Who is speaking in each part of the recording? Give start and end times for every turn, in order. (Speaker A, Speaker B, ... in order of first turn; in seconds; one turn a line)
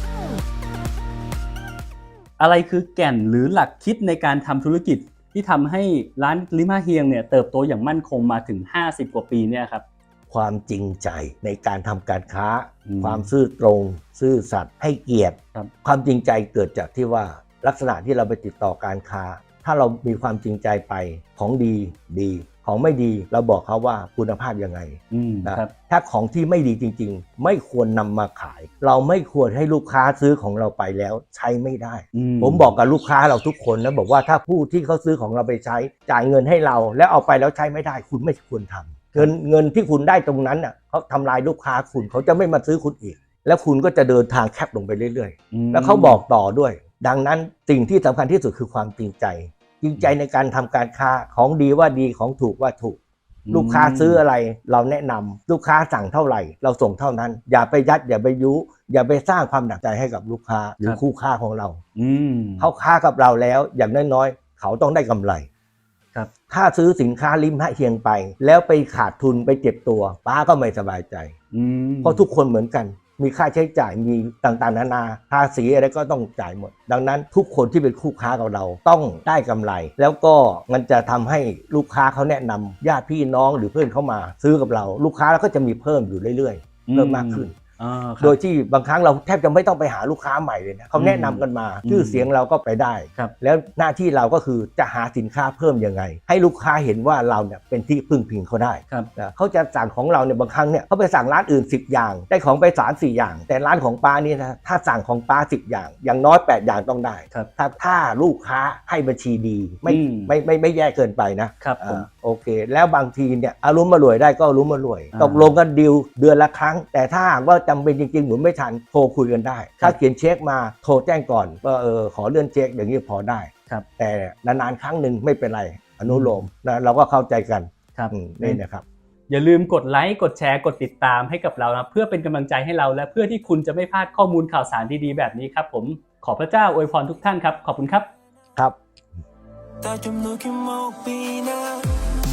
Speaker A: 2.4-9.8
Speaker B: 10.3-53.0
Speaker A: 12.8-13.3
Speaker A: 25.1-25.7
Speaker A: 32.1-32.7
Speaker A: 45.5-46.2
Speaker A: 53.5-54.2
Speaker B: 53.5-61.8
Speaker A: 62.0-62.7
Speaker B: 62.6-65.5
Speaker B: 66.5-71.3
Speaker A: 71.5-72.2
Speaker B: 72.0-87.5
Speaker A: 86.8-88.4
Speaker B: 88.2-128.8
Speaker A: 91.0-92.3
Speaker A: 109.8-110.3
Speaker A: 111.6-112.0
Speaker A: 115.1-115.5
Speaker A: 126.1-126.4
Speaker A: 127.9-128.6
Speaker A: 129.3-138.1
Speaker C: 139.8-142.1